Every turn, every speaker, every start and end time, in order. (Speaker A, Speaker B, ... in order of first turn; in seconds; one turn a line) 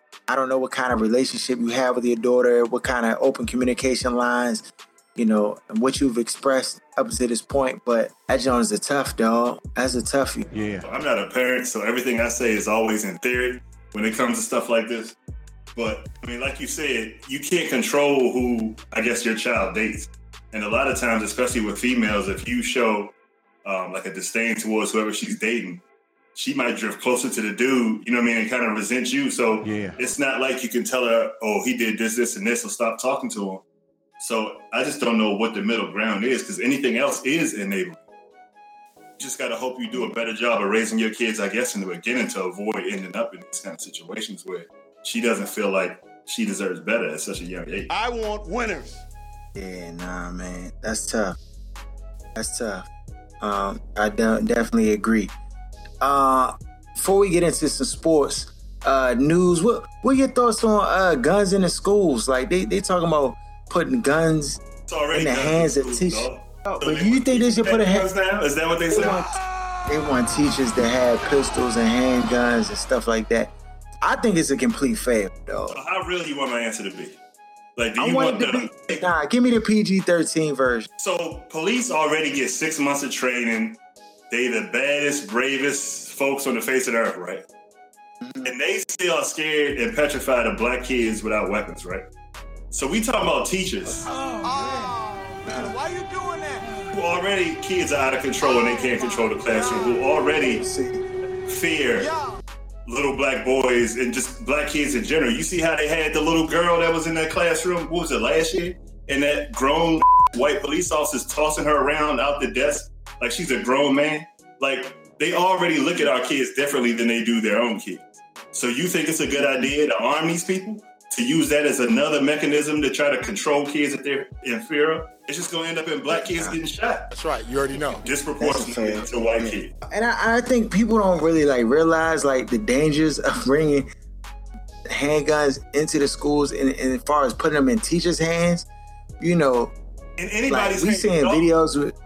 Speaker A: 0.3-10.5
Speaker B: 10.8-15.2
Speaker B: 15.8-23.1
Speaker B: 23.6-25.8
Speaker B: 26.3-33.6
Speaker B: 34.2-38.0
Speaker B: 39.2-47.9
Speaker C: 47.9-49.0
Speaker A: 49.5-51.4
Speaker A: 52.4-52.9
Speaker A: 53.4-55.3
Speaker A: 56.0-64.6
Speaker B: 64.9-69.2
Speaker A: 65.1-68.1
Speaker A: 68.9-75.8
Speaker B: 75.7-77.2
Speaker B: 77.8-79.0
Speaker A: 78.0-80.9
Speaker B: 81.0-83.8
Speaker B: 84.3-87.4
Speaker B: 88.4-92.1
Speaker B: 92.7-94.0
Speaker D: 94.4-96.8
Speaker C: 94.4-94.9
Speaker A: 95.5-95.7
Speaker B: 96.9-100.6
Speaker D: 98.5-100.0
Speaker A: 100.4-101.0
Speaker B: 101.5-102.1
Speaker D: 102.0-102.3
Speaker B: 102.8-127.1
Speaker A: 126.1-126.6
Speaker C: 127.1-128.1
Speaker B: 128.0-129.7
Speaker A: 128.4-133.9
Speaker A: 134.9-138.7
Speaker A: 139.2-139.7
Speaker B: 140.2-141.5
Speaker A: 140.5-141.9